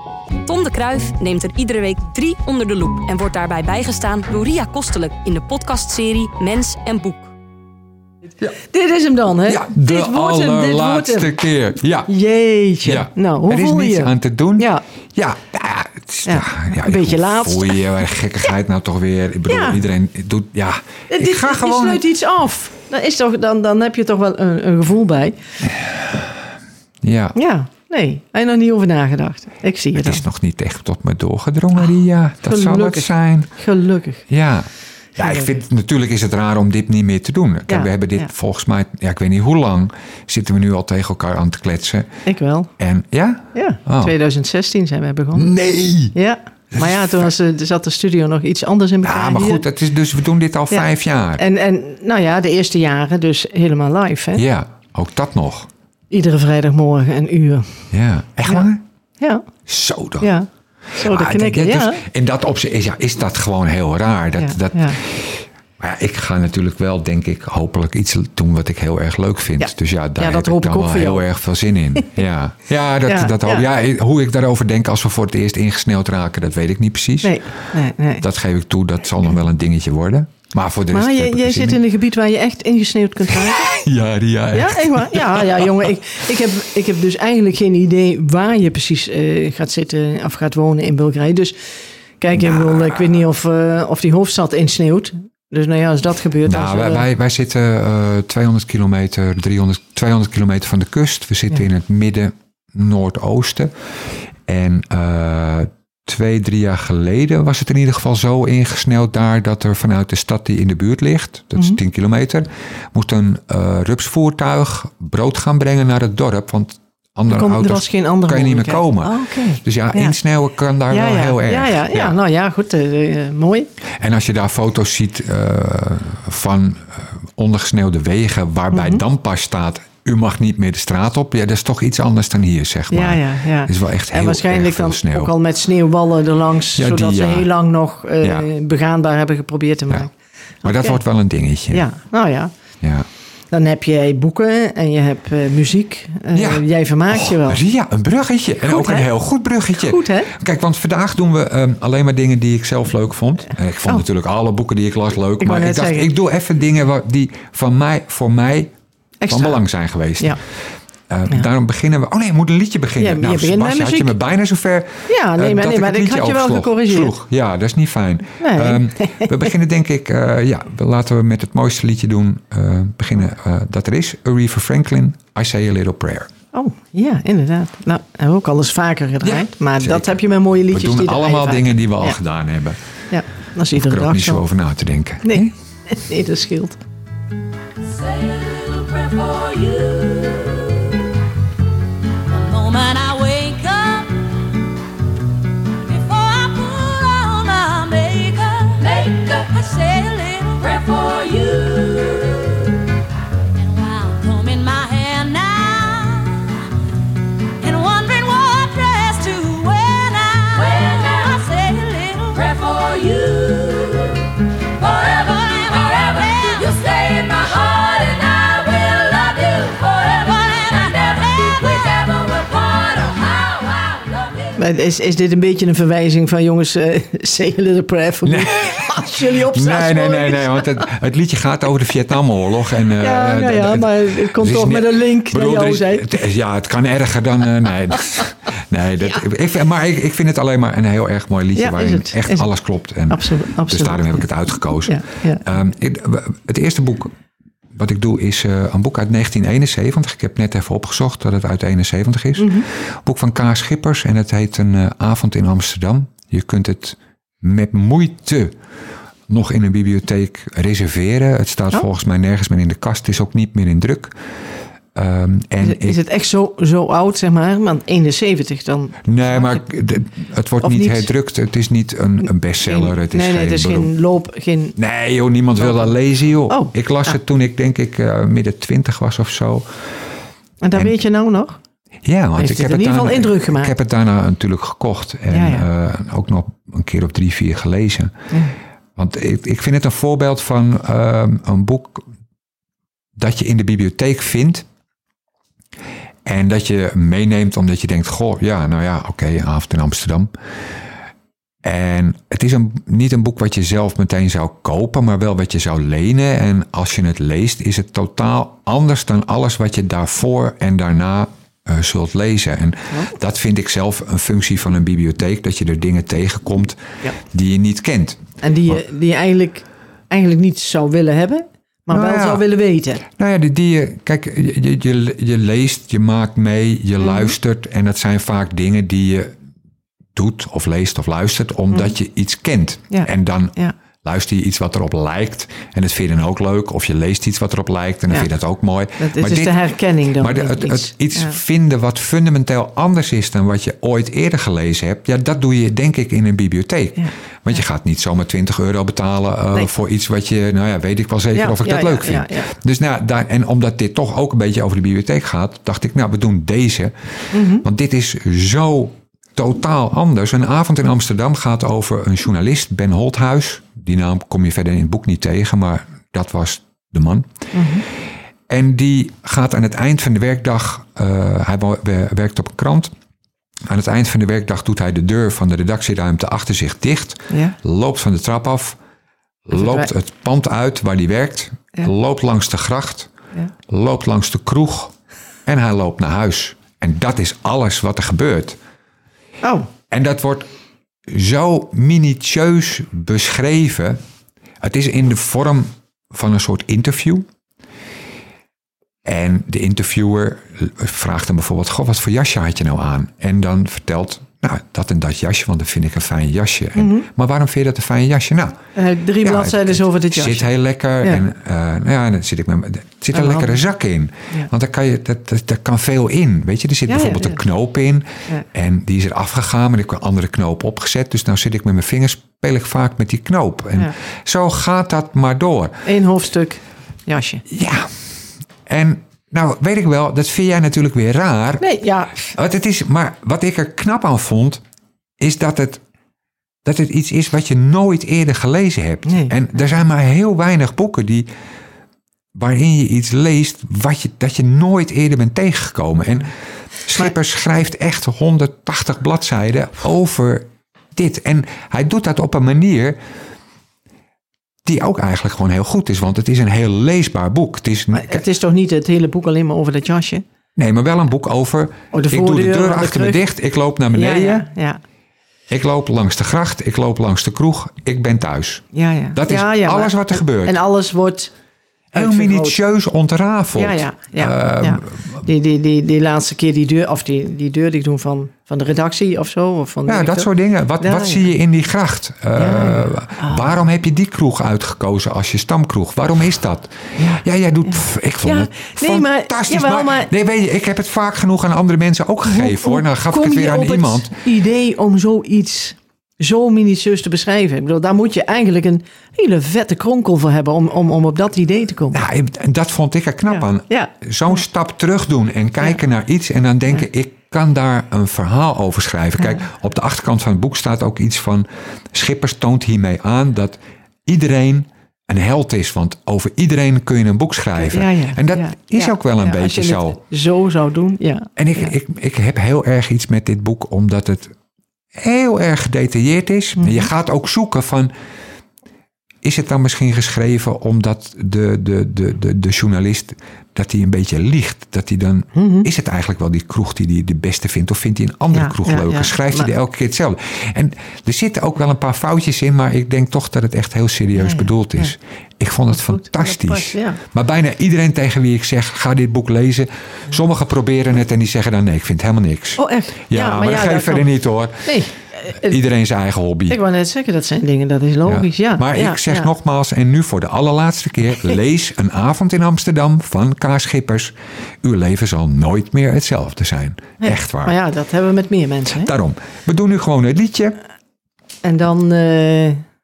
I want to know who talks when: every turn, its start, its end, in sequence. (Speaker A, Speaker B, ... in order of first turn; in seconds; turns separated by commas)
Speaker A: 0.4-7.3, Speaker B: 8.4-11.3, Speaker C: 9.4-12.1, Speaker B: 12.1-14.8, Speaker C: 12.8-22.0, Speaker B: 16.2-17.9, Speaker B: 19.5-19.8, Speaker B: 21.1-25.4, Speaker C: 27.0-27.4, Speaker B: 27.3-30.2, Speaker C: 30.0-33.5, Speaker B: 32.4-34.2, Speaker C: 34.3-42.1, Speaker B: 35.2-35.5, Speaker B: 37.7-38.3, Speaker B: 42.2-42.7, Speaker C: 42.8-44.1, Speaker B: 43.5-45.5, Speaker C: 45.3-46.1, Speaker B: 46.1-49.6, Speaker C: 46.7-47.3, Speaker C: 49.0-51.4, Speaker B: 50.7-54.4, Speaker C: 54.3-55.7, Speaker B: 56.1-57.8, Speaker C: 57.9-58.8, Speaker B: 59.2-59.5, Speaker C: 59.7-60.3, Speaker B: 60.2-62.0, Speaker C: 61.0-77.4, Speaker B: 64.4-65.0, Speaker B: 69.6-71.2, Speaker B: 73.0-73.7, Speaker B: 77.2-78.2, Speaker C: 78.2-81.8, Speaker B: 80.9-83.8, Speaker C: 83.3-85.8, Speaker B: 84.5-91.5, Speaker B: 92.2-97.1, Speaker C: 92.4-92.9, Speaker C: 96.4-103.7, Speaker C: 104.5-122.2, Speaker B: 117.3-120.1, Speaker B: 120.9-123.7, Speaker C: 124.0-135.3, Speaker B: 128.7-129.0, Speaker B: 132.9-140.1, Speaker C: 136.8-137.5, Speaker C: 138.2-138.5, Speaker B: 140.6-141.0, Speaker C: 140.6-141.8, Speaker B: 141.7-142.5, Speaker C: 142.8-143.1, Speaker B: 143.5-147.6, Speaker C: 146.3-158.7, Speaker B: 148.6-149.1, Speaker B: 149.7-150.3, Speaker B: 155.4-156.1, Speaker B: 159.2-159.6, Speaker C: 159.3-160.4, Speaker C: 161.1-176.3, Speaker B: 163.0-164.1, Speaker B: 165.1-167.1, Speaker B: 168.4-169.5, Speaker B: 176.5-182.2, Speaker C: 179.2-180.1, Speaker C: 180.7-182.8, Speaker B: 183.1-184.4, Speaker C: 183.7-185.5, Speaker B: 185.2-186.8, Speaker D: 187.8-191.1, Speaker D: 192.3-194.3, Speaker D: 195.8-202.9, Speaker D: 203.5-206.7, Speaker D: 207.6-224.6, Speaker B: 224.6-230.9, Speaker C: 228.2-247.1, Speaker B: 233.0-236.2, Speaker B: 241.6-242.5, Speaker B: 243.1-244.2, Speaker B: 244.8-245.5, Speaker C: 247.7-258.6, Speaker B: 252.4-252.7, Speaker C: 259.3-264.1, Speaker C: 264.9-266.0, Speaker B: 265.6-269.6, Speaker C: 269.1-273.9, Speaker B: 270.6-271.1, Speaker B: 272.6-274.8, Speaker C: 274.8-279.7, Speaker B: 275.6-275.9, Speaker B: 276.5-277.1, Speaker B: 280.6-281.6, Speaker C: 282.0-288.1, Speaker B: 282.4-283.7, Speaker B: 285.3-285.6, Speaker C: 288.9-292.1, Speaker C: 293.1-294.6, Speaker C: 296.2-300.3, Speaker C: 301.6-318.8, Speaker B: 318.4-323.0, Speaker C: 321.9-322.4, Speaker C: 323.1-329.3, Speaker B: 327.0-327.3, Speaker C: 330.1-339.6, Speaker B: 332.9-333.7, Speaker B: 339.0-341.4, Speaker C: 340.2-356.9, Speaker B: 351.3-352.5, Speaker B: 357.3-357.6, Speaker C: 357.6-367.3, Speaker B: 367.5-367.8, Speaker C: 368.5-372.9, Speaker C: 373.7-378.8, Speaker B: 377.3-377.6, Speaker C: 379.4-383.1, Speaker B: 379.5-379.9, Speaker C: 383.7-384.9, Speaker C: 385.4-388.6, Speaker B: 389.4-389.7, Speaker C: 389.9-390.5, Speaker C: 391.1-394.0, Speaker C: 394.6-397.3, Speaker C: 399.0-408.6, Speaker B: 406.8-407.1, Speaker B: 408.8-410.5, Speaker C: 409.2-425.8, Speaker B: 413.1-413.5, Speaker B: 416.9-417.4, Speaker B: 425.8-427.4, Speaker C: 427.5-427.9, Speaker C: 428.6-431.6, Speaker B: 431.6-432.3, Speaker C: 432.2-434.6, Speaker C: 435.2-435.8, Speaker C: 436.6-441.3, Speaker B: 439.1-439.3, Speaker C: 442.3-446.3, Speaker C: 446.8-453.0, Speaker C: 454.6-458.2, Speaker B: 457.9-460.2, Speaker C: 460.6-464.5, Speaker B: 461.9-463.2, Speaker B: 463.9-464.8, Speaker C: 465.5-470.6, Speaker B: 468.7-471.3, Speaker B: 471.9-472.6, Speaker C: 471.9-475.2, Speaker B: 473.5-481.3, Speaker C: 479.9-494.1, Speaker B: 482.4-483.4, Speaker B: 487.0-490.1, Speaker B: 492.2-502.0, Speaker C: 501.9-520.0, Speaker B: 503.3-503.9, Speaker B: 517.6-521.7, Speaker C: 521.4-524.3, Speaker C: 525.0-527.9, Speaker B: 526.6-526.9, Speaker C: 529.2-554.7, Speaker B: 535.3-535.7, Speaker B: 538.3-539.5, Speaker B: 544.2-544.9, Speaker B: 545.7-547.0, Speaker B: 552.6-554.1, Speaker B: 554.6-555.6, Speaker C: 555.3-556.6, Speaker B: 556.5-559.3, Speaker C: 558.0-567.5, Speaker B: 567.0-568.9, Speaker C: 568.7-570.6, Speaker B: 571.4-572.6